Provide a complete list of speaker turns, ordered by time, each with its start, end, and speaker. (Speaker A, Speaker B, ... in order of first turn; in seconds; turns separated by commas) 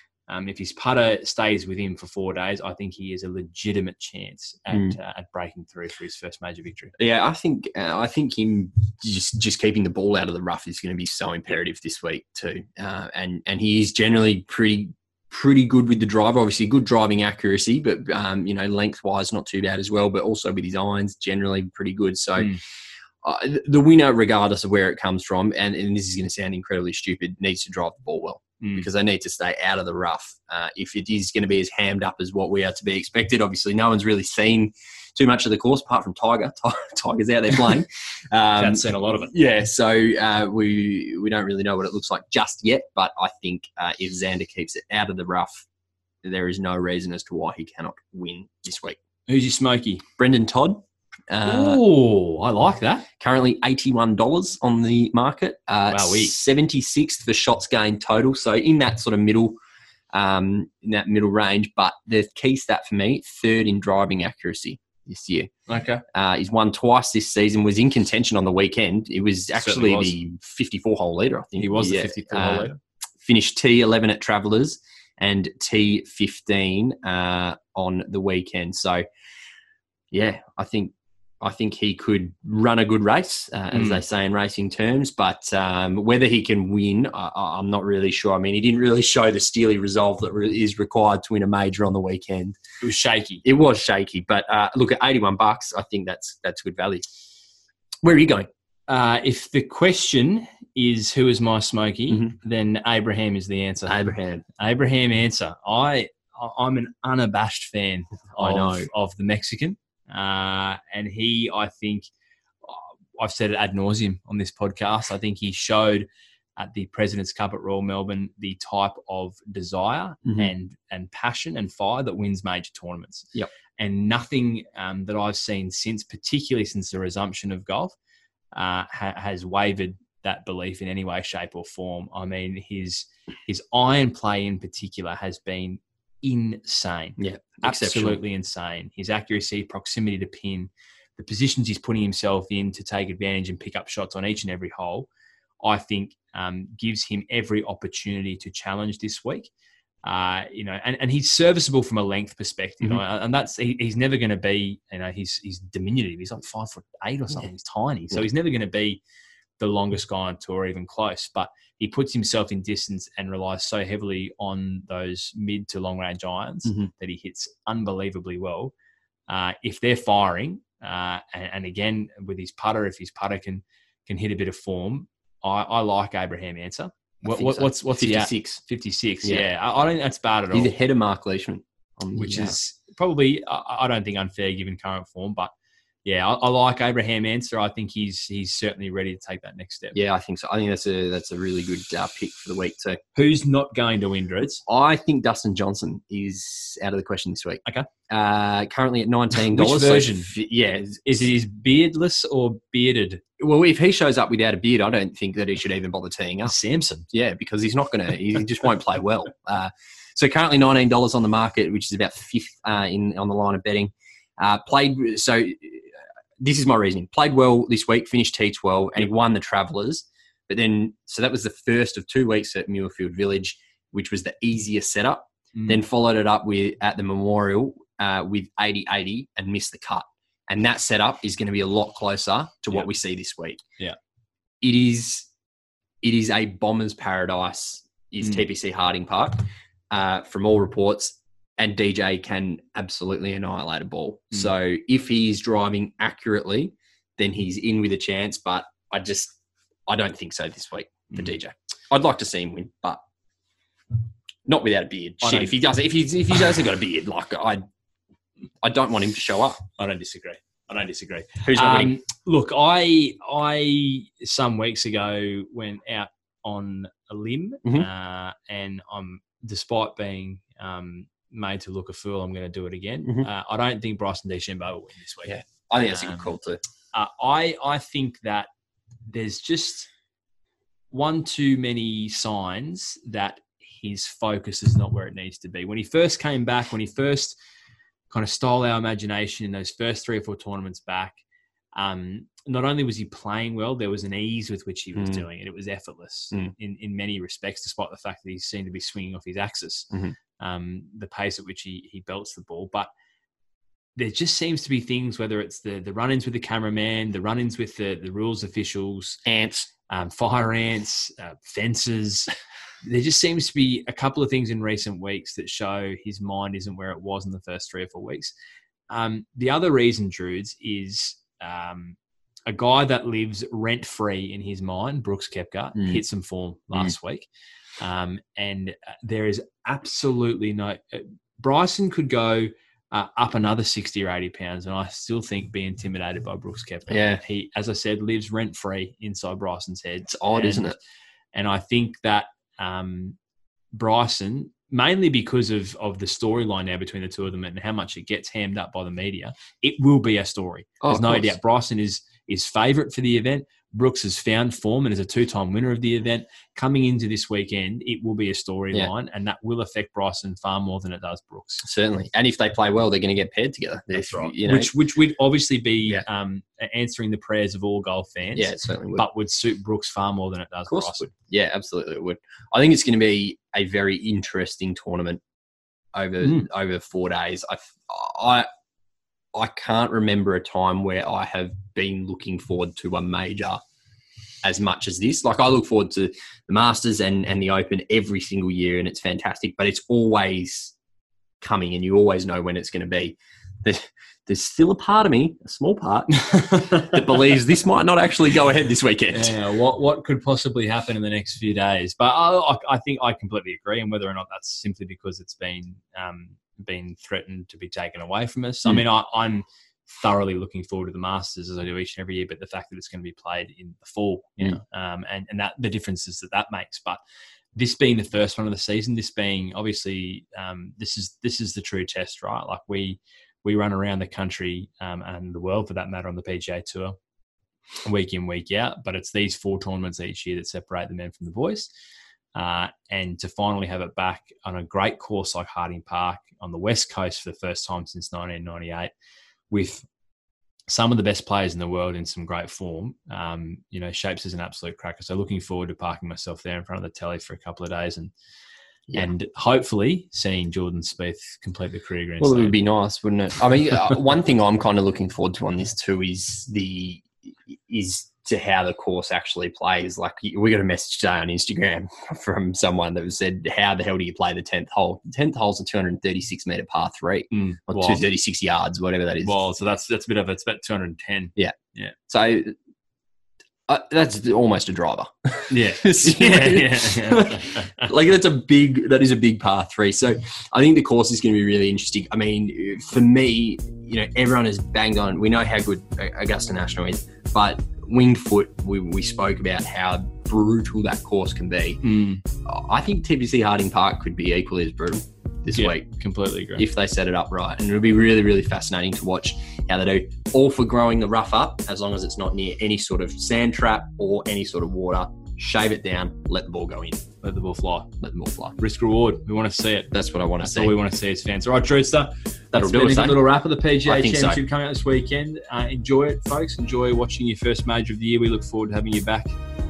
Speaker A: 0.3-6.9, Speaker B: 4.7-5.0, Speaker B: 7.0-22.6, Speaker B: 23.2-45.6, Speaker A: 28.6-28.9, Speaker A: 38.5-39.3, Speaker B: 46.2-49.0, Speaker A: 49.3-50.0, Speaker B: 50.2-51.8, Speaker A: 51.4-53.1, Speaker B: 53.2-59.6, Speaker A: 55.9-56.3, Speaker B: 60.1-65.5, Speaker A: 65.7-66.0, Speaker B: 66.1-72.7, Speaker A: 69.5-70.1, Speaker A: 71.6-72.8, Speaker B: 73.2-79.0, Speaker B: 80.1-92.6, Speaker A: 83.7-84.0, Speaker A: 92.8-93.4, Speaker B: 93.4-97.0, Speaker B: 98.0-98.5, Speaker A: 98.9-104.0, Speaker B: 103.8-104.4, Speaker A: 104.5-112.1, Speaker B: 108.4-108.9, Speaker A: 112.6-116.0, Speaker A: 116.6-127.9, Speaker B: 120.2-120.5, Speaker A: 128.5-145.1, Speaker B: 137.2-138.2, Speaker A: 145.6-149.5, Speaker A: 150.0-159.0, Speaker A: 159.6-168.7, Speaker A: 169.3-180.7, Speaker B: 177.2-178.6, Speaker B: 180.5-182.6, Speaker A: 182.1-185.5, Speaker A: 186.0-190.0, Speaker B: 189.9-193.0, Speaker A: 193.2-194.6, Speaker B: 194.7-201.2, Speaker A: 199.3-200.3, Speaker A: 201.1-203.2, Speaker B: 203.4-206.6, Speaker A: 206.4-207.1, Speaker B: 207.1-233.6, Speaker A: 225.5-225.8, Speaker B: 234.6-235.3, Speaker B: 236.0-249.3, Speaker B: 249.9-253.0, Speaker B: 254.4-257.6, Speaker A: 255.2-255.5, Speaker B: 258.6-259.6, Speaker A: 259.8-276.4, Speaker B: 261.4-261.9, Speaker B: 275.2-276.6, Speaker A: 276.9-278.5, Speaker A: 279.1-279.9, Speaker A: 280.9-287.4, Speaker A: 288.1-291.2, Speaker A: 291.8-302.9, Speaker B: 294.9-295.2, Speaker A: 304.0-309.2, Speaker B: 309.2-309.7, Speaker A: 309.9-312.3, Speaker A: 312.8-318.3, Speaker A: 318.9-327.3, Speaker A: 327.8-340.8, Speaker B: 336.9-337.2, Speaker B: 340.1-340.8, Speaker A: 341.3-343.2, Speaker A: 343.7-361.6, Speaker B: 350.8-351.3, Speaker B: 361.6-364.7, Speaker A: 363.9-371.1, Speaker B: 368.4-369.1, Speaker B: 370.7-375.2, Speaker B: 375.9-378.5, Speaker B: 379.3-383.6, Speaker B: 384.4-390.7, Speaker B: 391.4-399.3, Speaker A: 396.2-397.0, Speaker A: 399.1-417.0, Speaker A: 417.6-426.9, Speaker A: 427.8-431.7, Speaker A: 432.3-438.9, Speaker A: 439.5-439.8, Speaker A: 440.7-448.1, Speaker A: 448.9-452.6, Speaker B: 452.2-469.3, Speaker A: 467.3-468.1, Speaker A: 469.2-471.9, Speaker B: 472.1-472.6, Speaker B: 473.7-491.8, Speaker A: 475.5-477.9, Speaker A: 491.8-492.2, Speaker B: 492.4-495.9, Speaker A: 495.5-496.6, Speaker B: 496.6-507.0, Speaker A: 507.2-507.9, Speaker B: 508.0-508.6, Speaker A: 508.6-519.3, Speaker B: 509.9-510.7, Speaker B: 512.5-513.2, Speaker B: 513.8-514.4